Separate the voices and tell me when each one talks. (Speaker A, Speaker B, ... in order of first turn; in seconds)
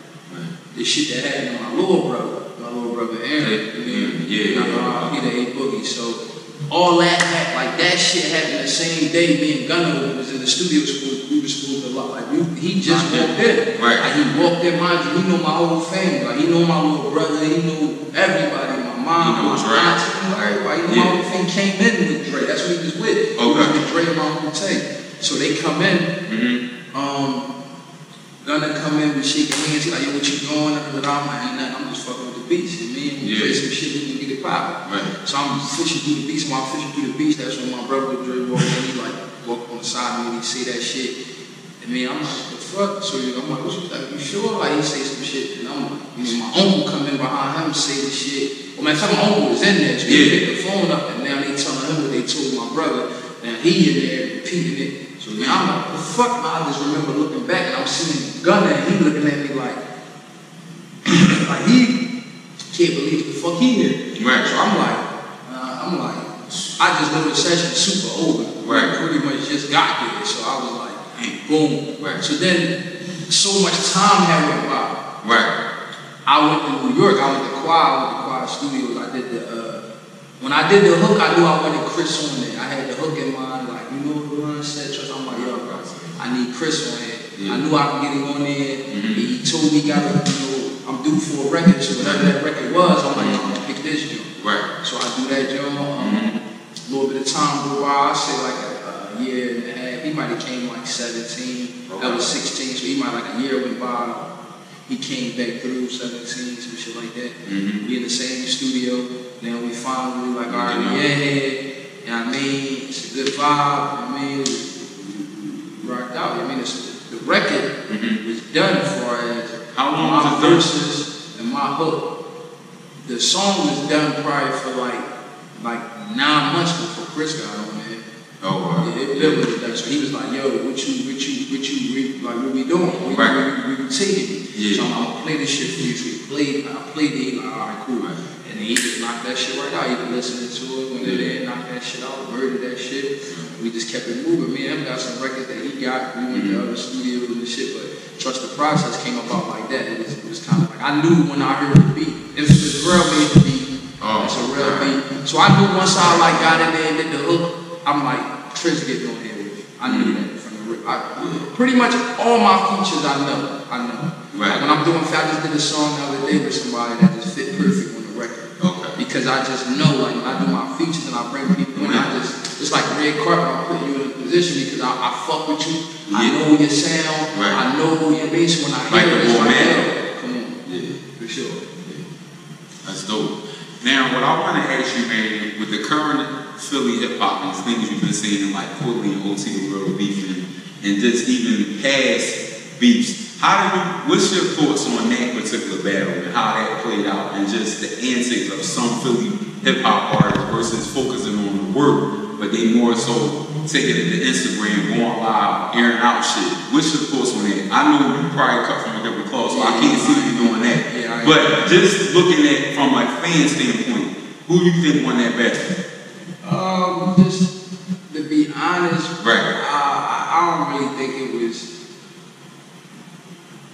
Speaker A: 0.7-6.2, 6.7-26.2, 26.9-27.5, 28.4-41.1, 41.8-59.8, 61.0-62.0, 62.7-75.0, 76.2-79.8, 80.4-96.3, 96.9-104.3, 104.9-122.1, 123.0-128.0, 128.8-181.7, 209.5-211.7, 216.4-217.5, 218.1-221.7
Speaker B: 3.4-5.2, 12.8-14.1, 19.2-20.0, 20.9-21.1, 23.4-23.8, 26.2-26.6, 33.2-33.6, 34.9-35.1, 50.0-50.4, 55.3-55.6, 64.2-64.8, 68.6-69.0, 72.0-72.2, 75.2-75.5, 85.3-86.2, 87.4-87.6, 88.9-89.2, 92.0-92.3, 93.2-93.5, 94.4-94.7, 96.0-96.4, 101.9-102.2, 107.5-107.8, 110.5-111.0, 117.9-118.2, 119.7-120.7, 128.4-129.4, 133.1-133.3, 134.5-134.9, 141.0-141.3, 146.3-146.6, 154.0-154.9, 156.0-156.4, 159.8-160.2, 164.3-164.6, 168.6-169.0, 171.7-172.1, 176.1-176.3, 177.3-177.6, 178.9-179.8, 180.7-181.0, 182.8-215.7, 219.2-219.5